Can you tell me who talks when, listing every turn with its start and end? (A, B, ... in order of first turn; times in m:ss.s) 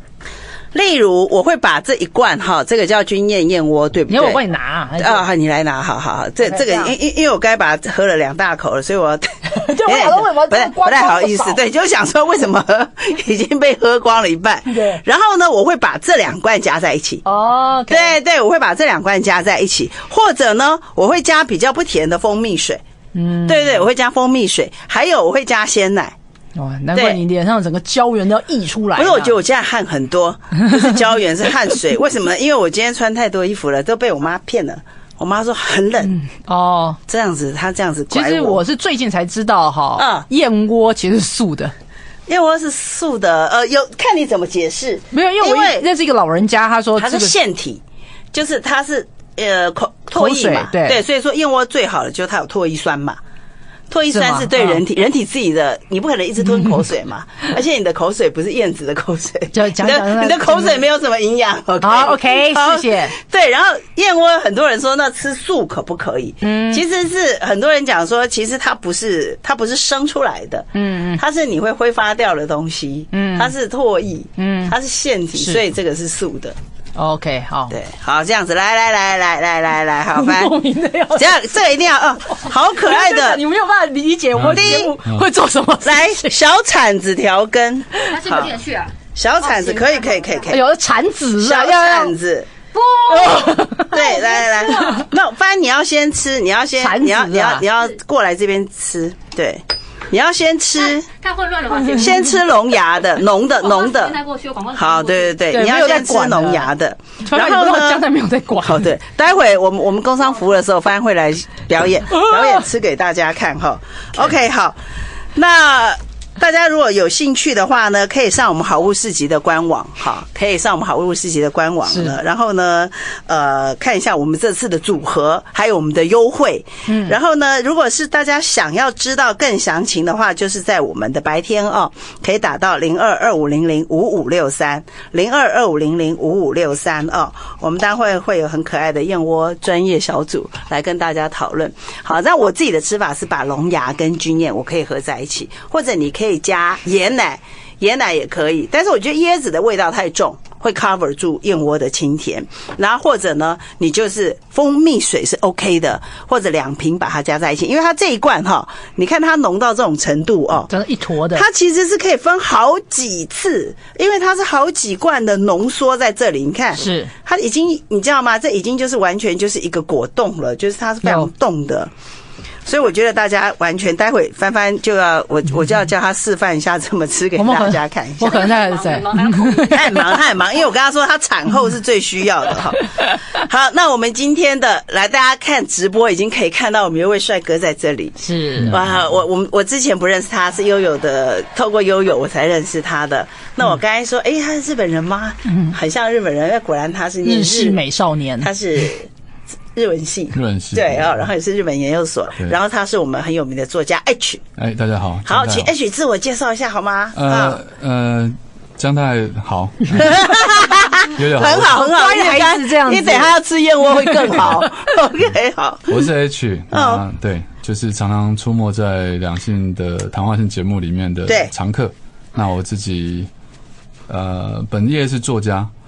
0:00.7-0:04.4 A
0:04.1-0:05.3 B
0:05.0-0:17.2 A
0:06.4-0:06.9 B
0:09.6-0:11.6 B
0:14.7-0:15.0 B
0:17.3-0:18.2 B
0:17.9-0:22.8 A
0:23.1-0:23.9 B
0:23.5-0:26.2 A
0:26.6-0:29.4 B
0:26.9-0:27.2 A
0:29.0-0:36.2 A
0:36.1-0:37.0 B
0:37.1-0:38.6 A
0:38.1-0:41.7 B
0:40.0-0:40.3 A
0:42.3-0:45.9 A
0:45.1-0:47.3 B
0:47.0-0:47.8 A
0:48.3-0:53.2 A
0:50.2-0:51.0 B
0:53.9-1:16.6 A
0:54.1-0:54.8 B
0:59.5-1:00.8 B
1:01.8-1:03.1 B
1:06.4-1:06.8 B
1:10.8-1:11.2 B
1:13.1-1:13.5 B
1:14.4-1:14.8 B
1:17.0-1:17.7 B
1:17.7-1:20.6 A
1:20.2-1:21.7 B
1:21.2-1:23.4 A
1:22.3-1:26.3 B
1:24.4-1:25.3 C
1:24.5-1:25.0 A
1:25.8-1:28.6 A
1:28.1-1:30.4 D
1:29.2-1:30.6 A
1:30.5-1:32.1 B
1:31.4-1:32.5 A
1:32.7-1:35.0 D
1:33.1-1:35.0 B
1:33.1-1:41.1 A
1:36.8-1:37.6 B
1:41.1-1:42.5 D
1:41.9-1:42.2 B
1:41.9-1:44.2 A
1:43.5-1:45.4 D
1:44.7-1:48.0 A
1:45.5-1:46.7 B
1:47.3-1:48.9 B
1:48.6-1:54.8 A
1:52.1-1:52.6 B
1:55.4-2:40.7 A
2:01.9-2:02.2 B
2:06.9-2:07.2 B
2:40.7-2:41.4 B
2:41.3-2:51.9 A
2:46.8-2:47.1 B
2:51.0-2:51.3 B
2:52.6-2:58.6 A
2:57.4-3:00.2 B
2:58.3-2:59.8 D
2:59.6-3:17.8 A
3:08.2-3:08.7 B
3:08.6-3:09.0 C
3:15.5-3:15.7 B
3:17.2-3:18.5 B
3:18.4-3:19.1 A
3:19.8-3:24.4 A
3:20.3-3:21.2 C
3:24.6-3:25.7 C
3:25.3-3:27.6 A
3:27.2-3:30.4 C
3:30.0-3:36.0 A
3:31.1-3:31.7 C
3:31.5-3:33.4 B
3:33.9-3:34.6 B
3:35.9-3:43.3 C
3:36.7-3:37.0 A
3:41.3-3:41.5 A
3:44.1-3:45.7 C